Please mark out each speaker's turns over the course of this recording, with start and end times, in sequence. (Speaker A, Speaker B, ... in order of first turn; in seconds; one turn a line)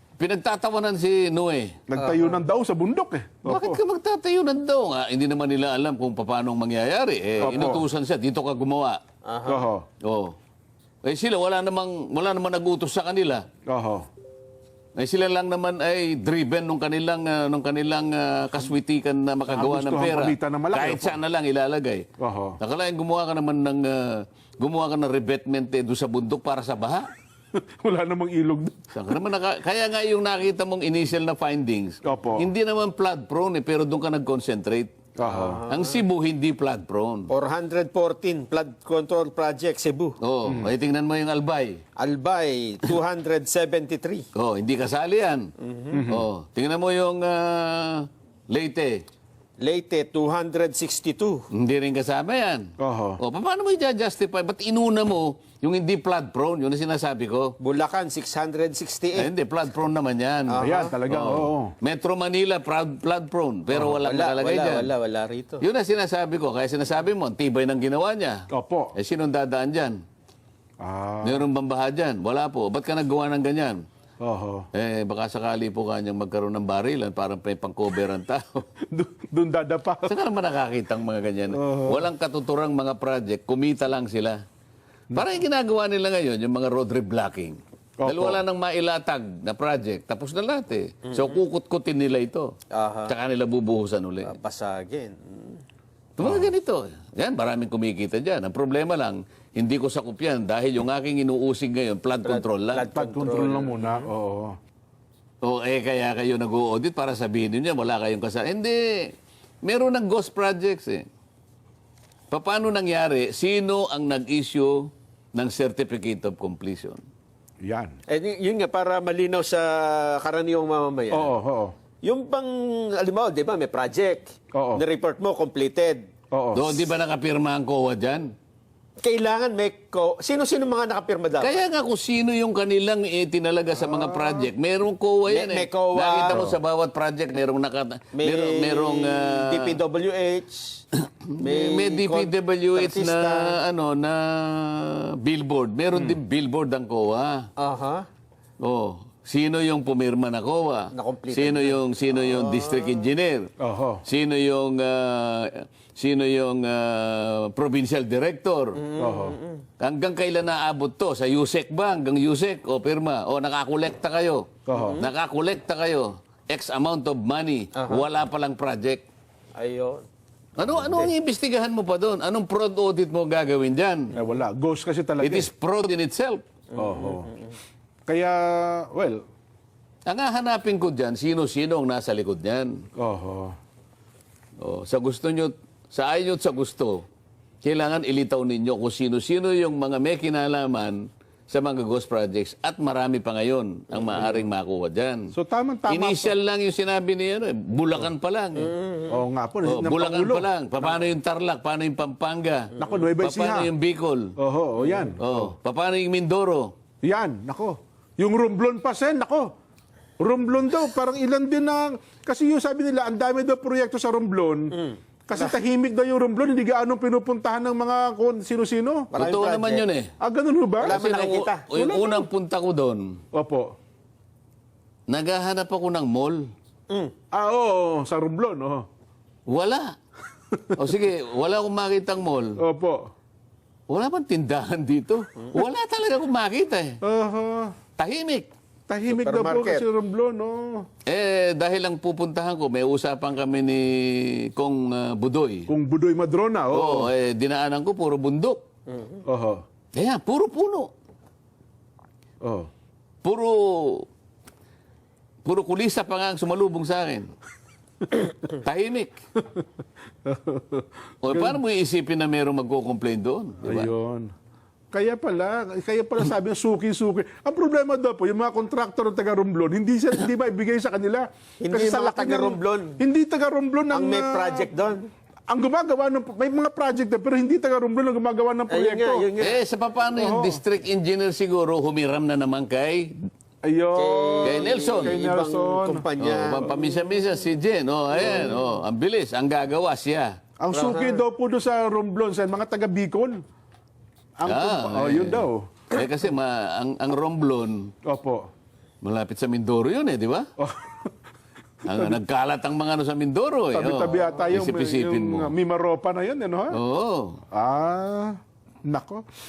Speaker A: 0.2-1.7
Speaker B: 1.9-3.8
Speaker C: 2.0-2.4
Speaker A: 3.5-9.0
Speaker B: 7.4-7.8
Speaker C: 9.2-9.7
Speaker B: 9.5-9.8
Speaker A: 10.0-10.3
Speaker A: 11.0-13.4
Speaker B: 13.7-14.0
Speaker A: 14.9-22.1
Speaker B: 19.5-21.2
Speaker B: 22.2-22.6
Speaker A: 22.6-27.1
Speaker B: 27.5-29.2
Speaker A: 28.9-35.0
Speaker B: 32.0-32.5
Speaker B: 35.2-35.6
Speaker C: 35.2-35.9
Speaker A: 35.6-37.3
Speaker C: 37.3-40.2
Speaker A: 40.2-41.8
Speaker C: 42.0-44.2
Speaker A: 44.3-49.0
Speaker C: 45.6-46.0
Speaker B: 45.9-46.2
Speaker C: 49.6-51.5
Speaker A: 51.5-57.5
Speaker B: 52.8-53.2
Speaker C: 57.6-59.3
Speaker A: 59.1-64.9
Speaker C: 60.5-61.0
Speaker B: 60.6-61.7
Speaker C: 63.9-65.6
Speaker A: 65.6-70.0
Speaker B: 68.5-68.9
Speaker B: 70.8-71.5
Speaker A: 71.2-73.8
Speaker B: 74.2-74.7
Speaker A: 74.7-78.6
Speaker B: 78.9-80.1
Speaker A: 80.0-84.4
Speaker B: 81.5-82.0
Speaker B: 85.1-85.4
Speaker A: 85.1-92.5
Speaker B: 88.0-88.4
Speaker C: 92.7-93.1
Speaker A: 93.0-94.3
Speaker C: 94.2-95.6
Speaker A: 96.2-102.8
Speaker B: 96.2-96.5
Speaker C: 102.2-104.0
Speaker B: 102.9-104.5
Speaker A: 105.4-111.0
Speaker A: 112.3-117.0
Speaker B: 117.6-118.0
Speaker C: 118.1-121.3
Speaker B: 121.1-121.7
Speaker C: 122.0-126.0
Speaker B: 124.5-124.8
Speaker B: 126.3-126.8
Speaker A: 126.5-128.3
Speaker C: 129.0-131.6
Speaker A: 131.4-139.8
Speaker B: 133.8-134.5
Speaker C: 135.3-136.4
Speaker B: 136.3-136.6
Speaker C: 138.1-140.8
Speaker A: 141.1-147.4
Speaker C: 141.4-143.6
Speaker C: 147.6-148.1
Speaker A: 148.6-153.5
Speaker C: 150.9-153.1
Speaker B: 153.6-154.0
Speaker A: 154.0-158.8
Speaker C: 158.8-159.6
Speaker B: 159.0-159.4
Speaker A: 159.8-169.0
Speaker B: 164.7-165.0
Speaker C: 164.7-165.0
Speaker C: 167.8-168.0
Speaker C: 169.6-170.1
Speaker A: 170.6-174.1
Speaker B: 174.1-175.5
Speaker A: 175.2-176.4
Speaker C: 176.7-177.6
Speaker B: 176.8-177.3
Speaker B: 178.1-179.2
Speaker A: 180.1-182.8
Speaker B: 183.0-183.5
Speaker A: 184.6-187.0
Speaker A: 187.6-195.3
Speaker B: 195.3-196.3
Speaker A: 195.9-198.7
Speaker C: 198.6-199.2
Speaker B: 199.1-200.4
Speaker A: 199.6-204.3
Speaker B: 202.8-203.7
Speaker B: 204.4-205.5
Speaker C: 204.8-205.1
Speaker A: 205.2-206.7
Speaker B: 207.0-209.5
Speaker B: 210.2-214.7
Speaker C: 214.8-215.6
Speaker B: 215.3-219.1
Speaker C: 219.1-219.8
Speaker A: 219.1-220.1
Speaker B: 220.2-221.0
Speaker C: 220.8-221.9
Speaker A: 220.8-223.1
Speaker B: 221.8-222.3
Speaker B: 223.3-223.7
Speaker A: 225.1-226.5
Speaker B: 227.3-228.8
Speaker A: 229.5-229.9
Speaker A: 230.7-232.6
Speaker B: 232.6-233.1
Speaker A: 233.9-237.0
Speaker B: 237.0-237.7
Speaker A: 238.0-238.5
Speaker B: 238.9-240.8
Speaker C: 239.1-239.8
Speaker A: 241.1-245.7
Speaker B: 245.7-247.1
Speaker A: 246.7-248.6
Speaker C: 248.9-249.2
Speaker B: 249.2-249.6
Speaker A: 249.9-250.9
Speaker B: 252.4-252.7
Speaker A: 253.2-254.1
Speaker A: 255.4-257.3
Speaker A: 258.5-259.2
Speaker B: 260.2-261.6
Speaker A: 261.2-263.9
Speaker B: 263.6-264.3
Speaker B: 264.9-274.7
Speaker C: 271.6-273.0
Speaker C: 273.9-275.1
Speaker B: 275.5-279.3
Speaker C: 278.7-279.6
Speaker A: 279.4-283.1
Speaker B: 280.1-280.6
Speaker B: 283.6-286.1
Speaker C: 283.9-286.8
Speaker A: 284.4-285.2
Speaker A: 286.2-290.3
Speaker C: 288.2-288.5
Speaker B: 290.6-293.4
Speaker C: 290.7-291.2
Speaker B: 294.4-295.7
Speaker A: 294.4-297.9
Speaker B: 298.0-298.5
Speaker A: 299.0-300.4
Speaker B: 300.6-301.1
Speaker A: 301.8-305.5
Speaker B: 301.9-302.2
Speaker B: 303.7-306.7
Speaker A: 306.7-307.4
Speaker B: 307.5-309.2